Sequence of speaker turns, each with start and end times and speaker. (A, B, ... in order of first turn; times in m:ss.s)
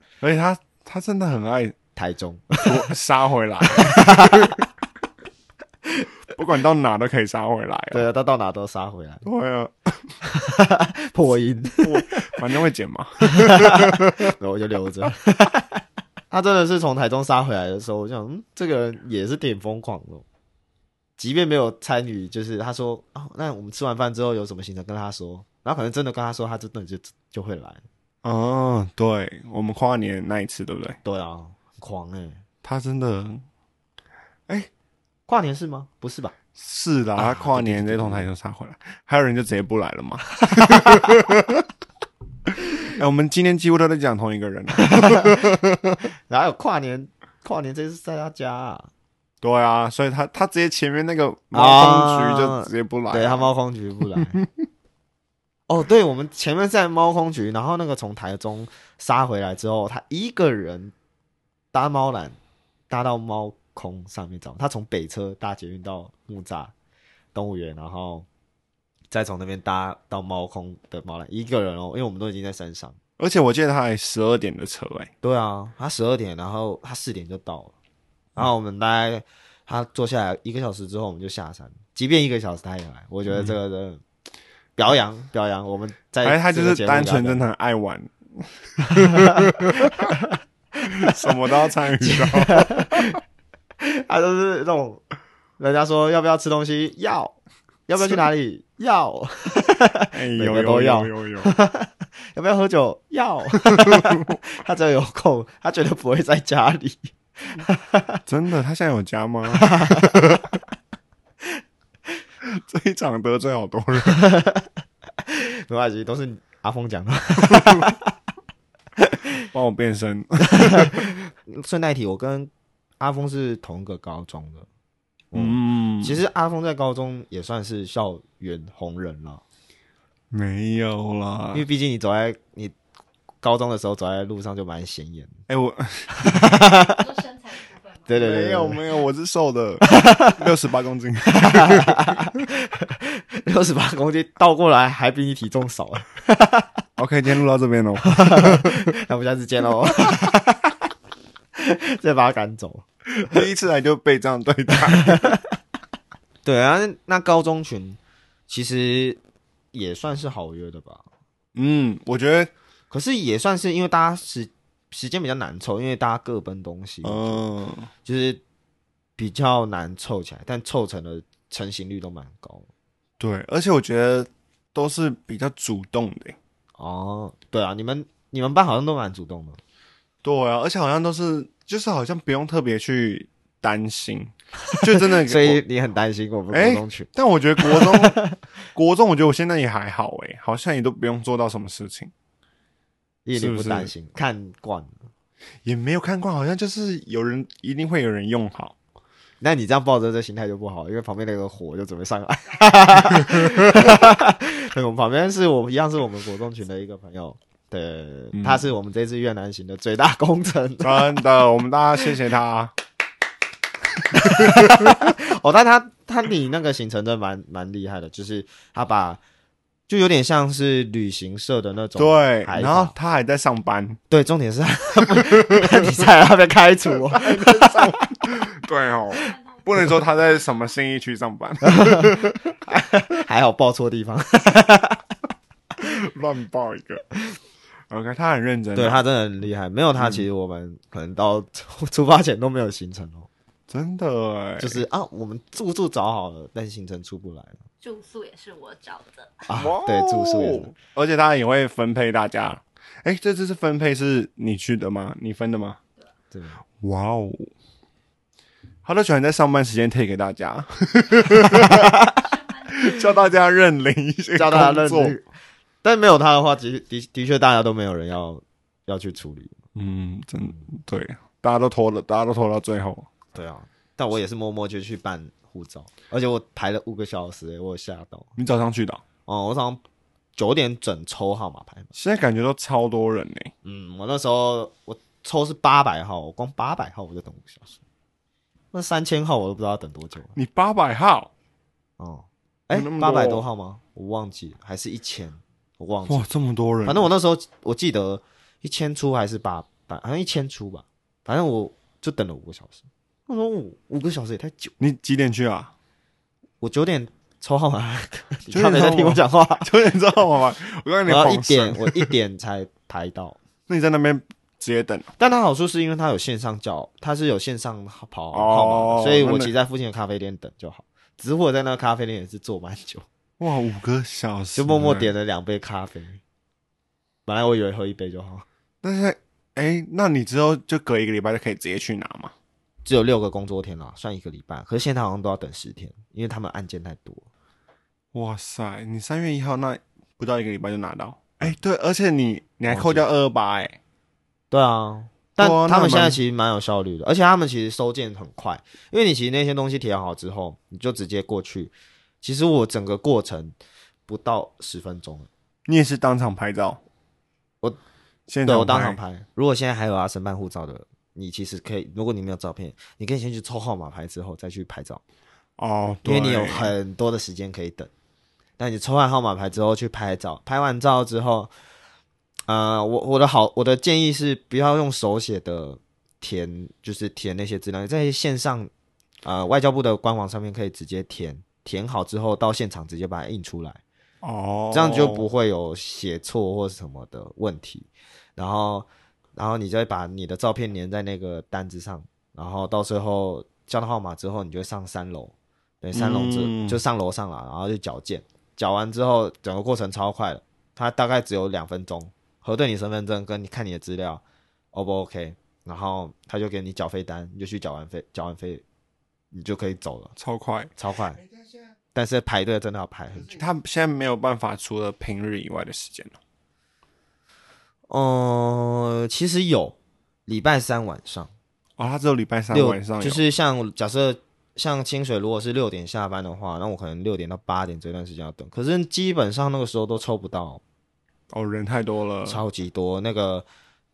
0:00.2-0:01.8 A
0:02.0-0:02.9 B
0:02.6-0:04.6 A
0:03.6-0:04.6 B
0:06.3-0:08.1 A
0:07.9-0:09.2 B
0:09.2-0:10.1 A
0:10.2-0:12.3 B
0:11.8-0:14.3 A
0:13.2-0:15.8 B
0:16.3-0:20.2 B
0:21.2-0:27.8 B
0:28.2-0:31.0 A
0:31.0-0:32.4 B
0:32.6-0:33.4 A
0:35.3-0:36.4 B
0:36.6-0:41.7 A
0:37.2-0:38.3 B
0:42.8-0:46.1 A
0:44.8-0:45.4 B
0:46.3-0:48.9 B
0:49.4-0:53.5 A
0:51.5-0:54.4 B
0:54.1-0:54.7 A
0:55.7-1:00.9 B
1:01.7-1:02.4 B
1:02.9-1:06.7 B
1:07.4-1:08.3 B
1:09.1-1:13.0 B
1:13.2-1:15.1 A
1:15.2-1:17.7 B
1:18.4-1:24.0 B
1:23.3-1:23.6 A
1:24.8-1:27.4 B
1:26.2-1:30.1 A
1:28.9-1:31.3 B
1:30.9-1:33.2 A
1:32.0-1:33.2 B
1:33.8-1:35.0 B
1:35.6-1:37.4 B
1:37.9-1:48.2 B
1:40.1-1:41.5 A
1:43.7-1:44.4 A
1:48.3-1:50.6 A
1:49.6-1:50.2 B
1:52.4-1:54.2 A
1:54.1-1:54.7 B
1:55.3-1:58.0 B
1:57.5-1:57.8 A
1:59.5-2:01.0 A
2:00.5-2:04.7 B
2:05.3-2:09.4 B
2:05.4-2:06.2 A
2:10.3-2:11.6 A
2:11.5-2:12.7 B
2:13.4-2:15.3 B
2:15.5-2:16.5 A
2:16.1-2:17.0 B
2:16.9-2:18.2 C
2:18.1-2:18.8 B
2:18.1-2:22.2 A
2:19.9-2:20.4 B
2:21.3-2:26.7 B
2:27.0-2:28.9 A
2:28.0-2:30.8 B
2:31.6-2:33.4 B
2:33.2-2:35.4 A
2:34.9-2:35.4 B
2:36.4-2:39.2 B
2:39.7-2:41.0 B
2:41.6-2:42.5 A
2:42.9-2:47.4 B
2:47.0-2:47.9 A
2:48.0-2:48.4 B
2:49.2-2:52.7 B
2:53.2-2:56.4 A
2:56.8-2:59.6 B
3:00.2-3:05.6 A
3:04.7-3:07.1 B
3:06.5-3:08.2 A
3:07.6-3:08.4 B
3:08.7-3:12.1 A
3:13.2-3:15.1 B
3:13.3-3:13.9 A
3:15.6-3:18.8 A
3:19.4-3:31.1 B
3:23.2-3:23.9 A
3:28.3-3:28.6 A
3:30.8-3:32.7 A
3:34.1-3:39.2 B
3:34.1-3:35.1 A
3:39.9-3:42.9 B
3:42.0-3:44.0 A
3:44.1-3:48.0 B
3:45.1-3:46.0 A
3:46.9-3:52.4 A
3:49.2-3:50.6 C
3:51.7-3:55.0 B
3:55.8-3:57.0 A
3:57.9-3:59.0 A
3:58.8-4:03.3 B
4:00.0-4:00.2 A
4:03.7-4:04.8 A
4:04.6-4:07.6 B
4:07.8-4:09.5 C
4:09.5-4:10.7 B
4:09.6-4:15.8 A
4:16.3-4:16.6 B
4:16.8-4:17.5 A
4:18.8-4:21.9 A
4:21.6-4:22.2 B
4:22.0-4:23.1 C
4:22.7-4:25.2 A
4:24.4-4:25.2 B
4:25.8-4:29.6 B
4:29.8-4:33.1 A
4:33.3-4:38.3 B
4:38.4-4:39.0 A
4:39.3-4:39.8 B
4:40.4-4:41.9 B
4:41.9-4:43.5 A
4:43.6-4:47.8 B
4:48.7-4:50.4 B
4:50.4-4:51.3 A
4:52.0-4:56.3 B
4:52.7-4:53.4 A
4:56.1-4:57.1 A
4:56.8-5:04.7 B
5:04.8-5:05.7 A
5:06.6-5:09.7 B
5:08.5-5:12.1 A
5:11.1-5:13.4 B
5:13.7-5:15.1 A
5:15.2-5:23.1 B
5:18.3-5:19.5 A
5:23.4-5:25.1 A
5:24.6-5:26.2 B
5:27.3-5:28.4 B
5:28.8-5:32.3 A
5:32.8-5:37.2 B
5:38.1-5:43.8 A
5:42.7-5:43.0 B
5:44.5-5:53.6 B
5:45.4-5:46.2 A
5:54.1-5:55.3 B
5:55.7-5:56.8 A
5:58.3-5:59.0 A
5:58.4-6:05.0 B
6:05.6-6:06.8 A
6:06.0-6:07.9 B
6:08.6-6:11.5 B
6:12.5-6:18.7 B
6:19.2-6:23.8 B
6:24.2-6:25.3 A
6:24.7-6:44.2 B
6:35.9-6:36.8 A
6:44.7-6:48.6 B
6:49.3-6:50.1 B
6:50.2-6:51.5 A
6:50.8-6:51.2 B
6:51.9-6:53.4 B
6:53.2-6:56.2 A
6:57.9-7:01.3 B
7:01.8-7:03.2 A
7:02.5-7:10.6 B
7:11.3-7:12.4 A
7:12.3-7:13.5 B